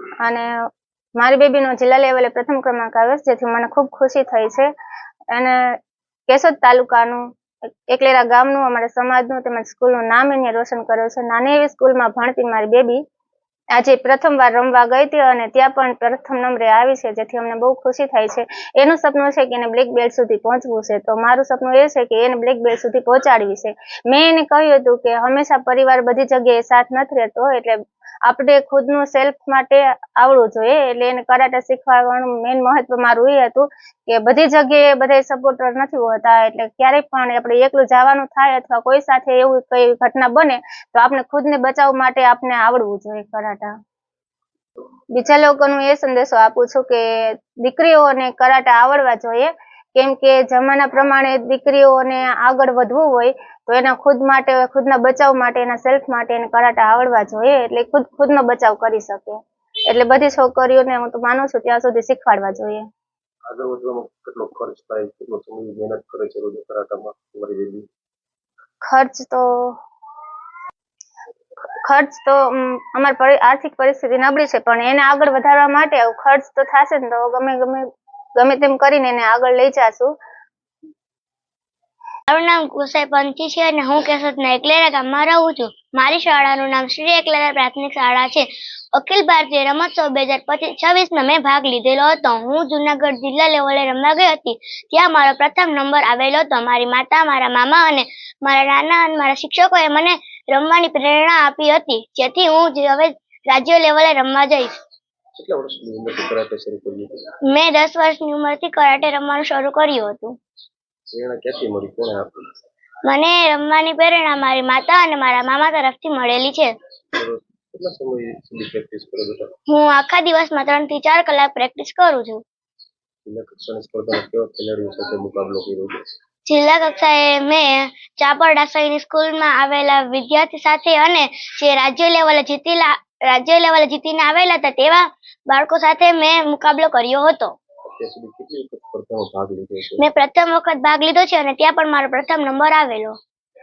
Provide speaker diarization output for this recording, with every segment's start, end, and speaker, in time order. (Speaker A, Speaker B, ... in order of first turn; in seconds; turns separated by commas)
Speaker A: 1.2-4.7, Speaker A: 6.3-7.2, Speaker A: 7.9-13.0, Speaker A: 13.7-43.7, Speaker A: 45.1-62.8, Speaker B: 63.5-67.8, Speaker A: 68.8-69.7, Speaker A: 71.8-77.8, Speaker A: 78.4-80.1, Speaker C: 82.3-104.8, Speaker B: 105.3-107.2, Speaker C: 107.5-110.3, Speaker B: 111.1-112.4, Speaker C: 113.0-116.7, Speaker B: 117.1-119.5, Speaker C: 119.7-122.4, Speaker B: 123.2-126.0, Speaker C: 126.5-137.5, Speaker B: 137.8-140.0, Speaker C: 140.0-143.2